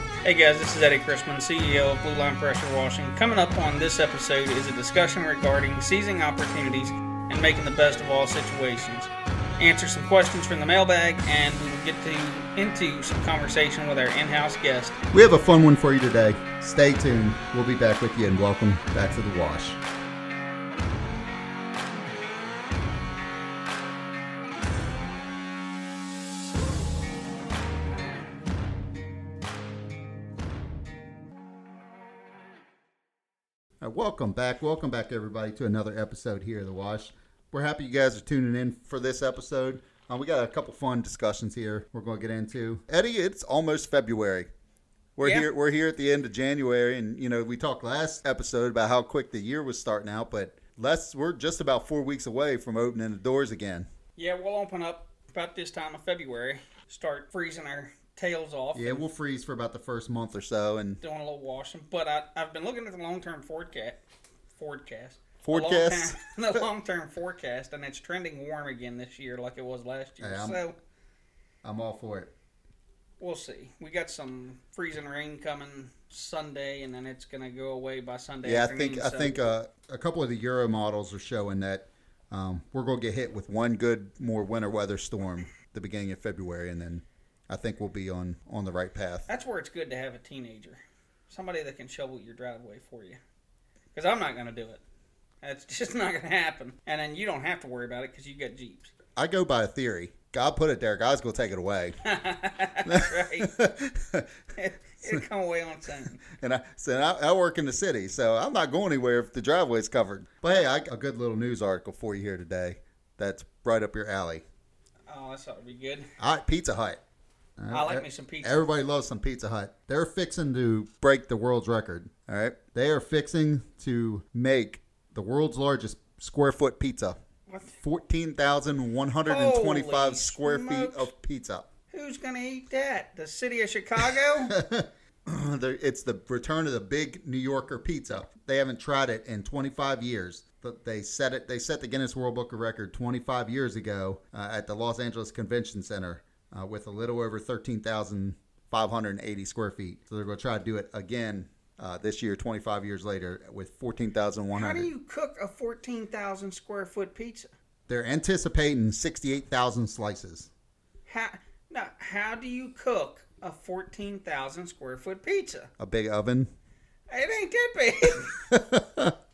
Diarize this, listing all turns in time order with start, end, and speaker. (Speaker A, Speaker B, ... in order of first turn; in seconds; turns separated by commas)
Speaker A: 0.2-15.0, Speaker B: 15.1-19.8, Speaker B: 33.8-44.5, Speaker B: 45.1-53.9, Speaker A: 45.2-45.5, Speaker A: 54.2-59.0, Speaker B: 58.7-61.0, Speaker A: 61.0-64.0, Speaker A: 64.5-70.8, Speaker B: 65.4-66.6, Speaker B: 70.2-70.6, Speaker B: 71.6-72.3, Speaker A: 73.2-79.3, Speaker B: 78.4-89.3, Speaker A: 89.3-93.2, Speaker A: 93.9-94.8, Speaker A: 95.4-98.9, Speaker B: 99.2-102.0, Speaker A: 102.0-103.5, Speaker B: 102.8-104.3, Speaker A: 104.5-106.2, Speaker B: 106.2-114.4, Speaker A: 115.1-116.1, Speaker B: 116.2-117.0, Speaker B: 117.6-127.2, Speaker A: 117.7-118.6, Speaker A: 127.5-127.7, Speaker B: 127.8-131.7, Speaker A: 129.2-131.1, Speaker A: 131.9-134.6, Speaker B: 134.5-154.9, Speaker A: 154.5-157.5, Speaker B: 157.9-160.5, Speaker A: 161.1-165.7, Speaker B: 165.8-166.5, Speaker A: 167.1-168.3, Speaker B: 168.2-169.2